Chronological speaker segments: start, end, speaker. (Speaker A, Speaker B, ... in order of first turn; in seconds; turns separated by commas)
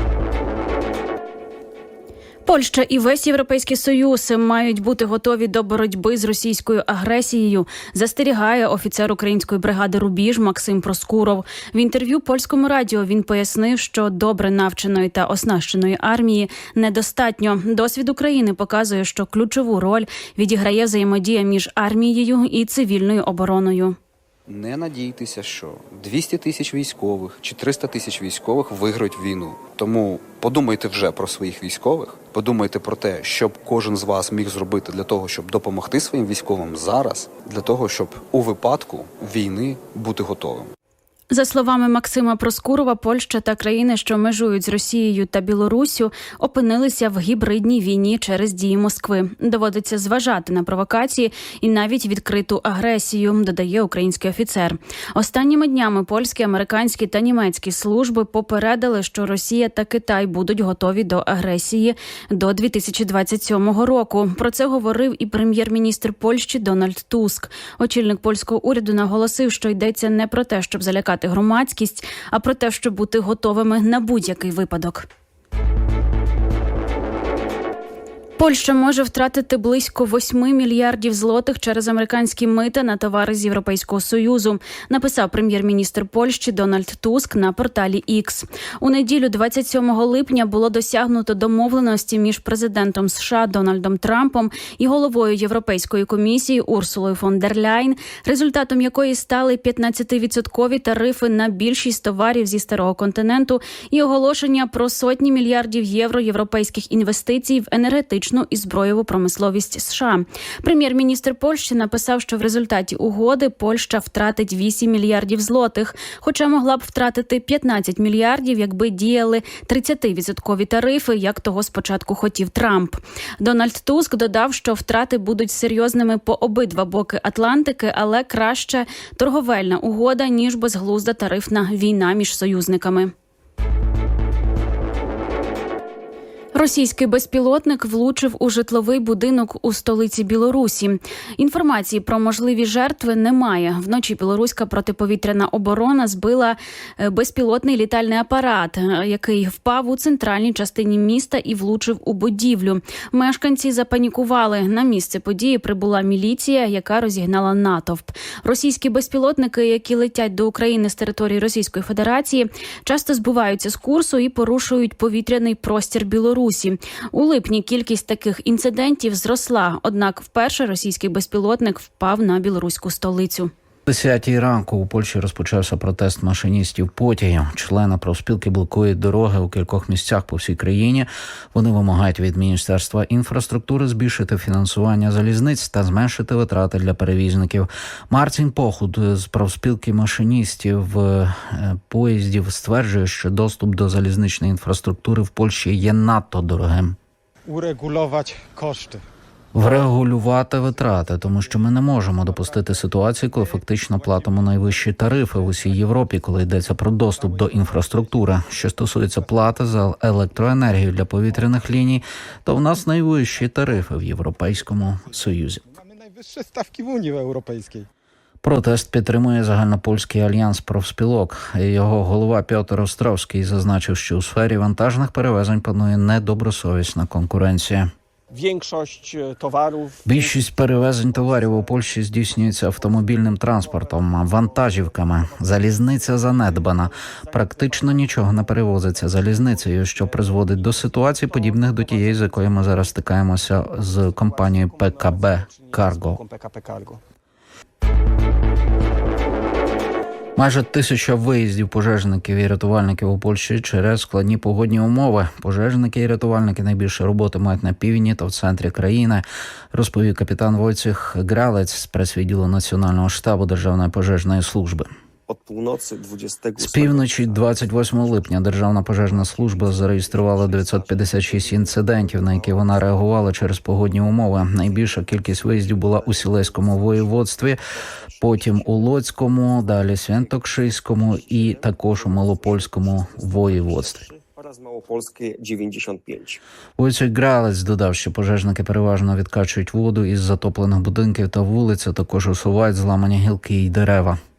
Speaker A: 2.4-23.9, Speaker B: 24.5-40.7, Speaker A: 41.3-75.1, Speaker A: 78.4-133.1, Speaker A: 136.5-173.5, Speaker C: 173.9-197.0, Speaker D: 197.5-198.8, Speaker C: 199.5-215.6, Speaker D: 202.1-202.6, Speaker D: 204.0-204.4, Speaker E: 205.0-205.3, Speaker D: 205.3-206.0, Speaker D: 207.2-208.7, Speaker E: 210.4-211.9, Speaker D: 215.6-217.8, Speaker C: 218.4-227.9, Speaker E: 228.3-230.0, Speaker C: 230.0-246.2, Speaker E: 231.1-242.9, Speaker E: 243.6-247.0, Speaker C: 250.3-264.9, Speaker E: 265.3-286.4, Speaker C: 266.6-277.6, Speaker C: 278.2-284.0, Speaker C: 286.8-294.2